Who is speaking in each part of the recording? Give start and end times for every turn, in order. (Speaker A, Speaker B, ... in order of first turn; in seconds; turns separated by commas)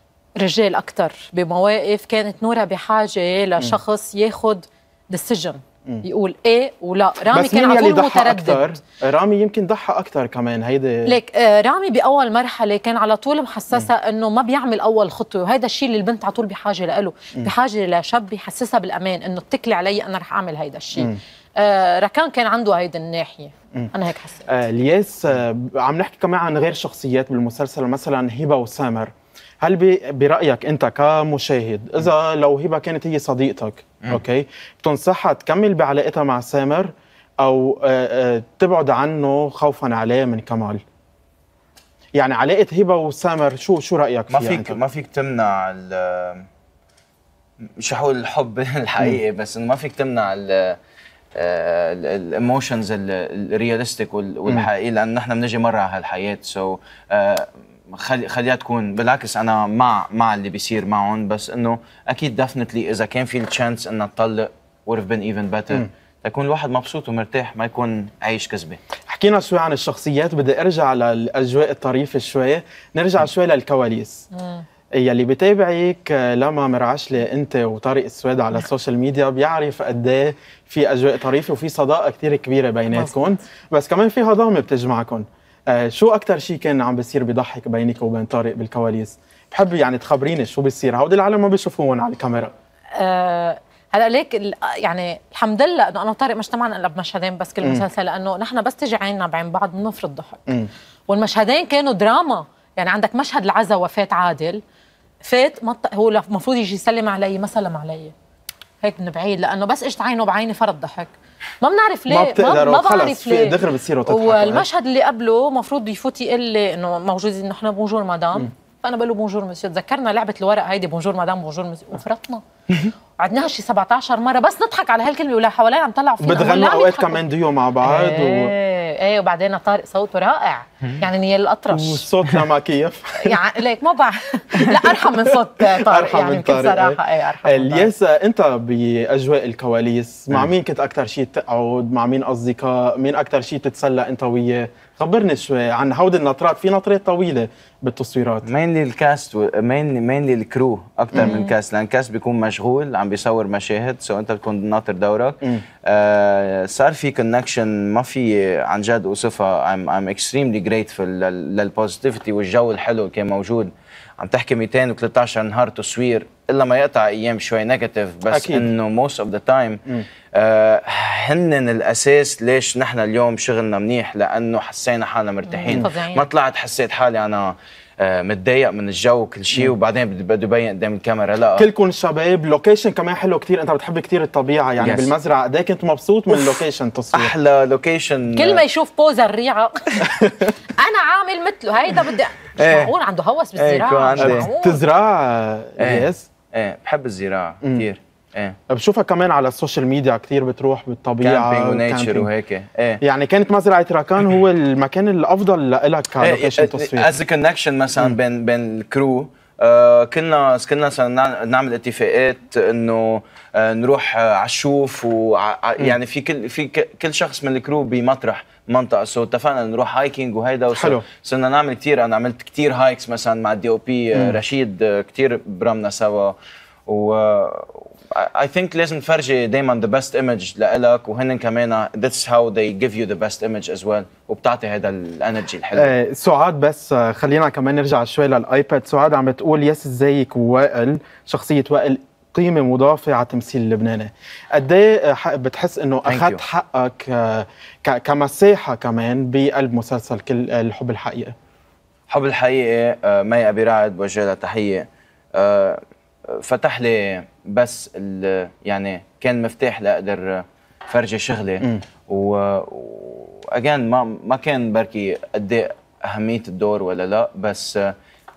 Speaker A: 0.4-8.8, Speaker B: 7.3-11.1, Speaker A: 11.1-24.5, Speaker B: 24.5-40.8, Speaker B: 42.1-44.8, Speaker C: 44.3-46.5, Speaker C: 47.8-50.8, Speaker C: 51.3-68.8, Speaker B: 69.1-74.2, Speaker A: 74.3-74.6, Speaker B: 75.0-92.5, Speaker A: 93.0-100.5, Speaker A: 101.1-104.6, Speaker A: 105.2-108.1, Speaker A: 108.8-111.1, Speaker A: 111.6-122.4, Speaker B: 112.1-114.7, Speaker A: 123.2-127.2, Speaker B: 126.2-128.5, Speaker A: 127.8-132.1, Speaker B: 131.7-133.4, Speaker A: 133.2-137.9, Speaker B: 134.5-148.5, Speaker C: 148.4-169.8, Speaker A: 151.2-151.5, Speaker B: 168.3-168.7, Speaker C: 170.3-181.7, Speaker A: 175.5-176.2, Speaker B: 181.6-187.3, Speaker C: 184.8-185.1, Speaker C: 186.3-186.6, Speaker C: 187.1-188.6, Speaker A: 188.3-190.2, Speaker B: 190.1-190.5, Speaker A: 190.8-194.8, Speaker C: 192.6-192.9, Speaker C: 193.6-194.5, Speaker B: 194.2-196.3, Speaker C: 195.8-198.6, Speaker B: 198.7-202.3, Speaker C: 201.2-203.0, Speaker B: 203.0-207.1, Speaker C: 206.2-226.3, Speaker B: 220.7-221.1, Speaker B: 224.1-224.4, Speaker C: 226.9-235.9, Speaker B: 235.7-251.3, Speaker C: 246.1-246.4, Speaker C: 252.1-267.9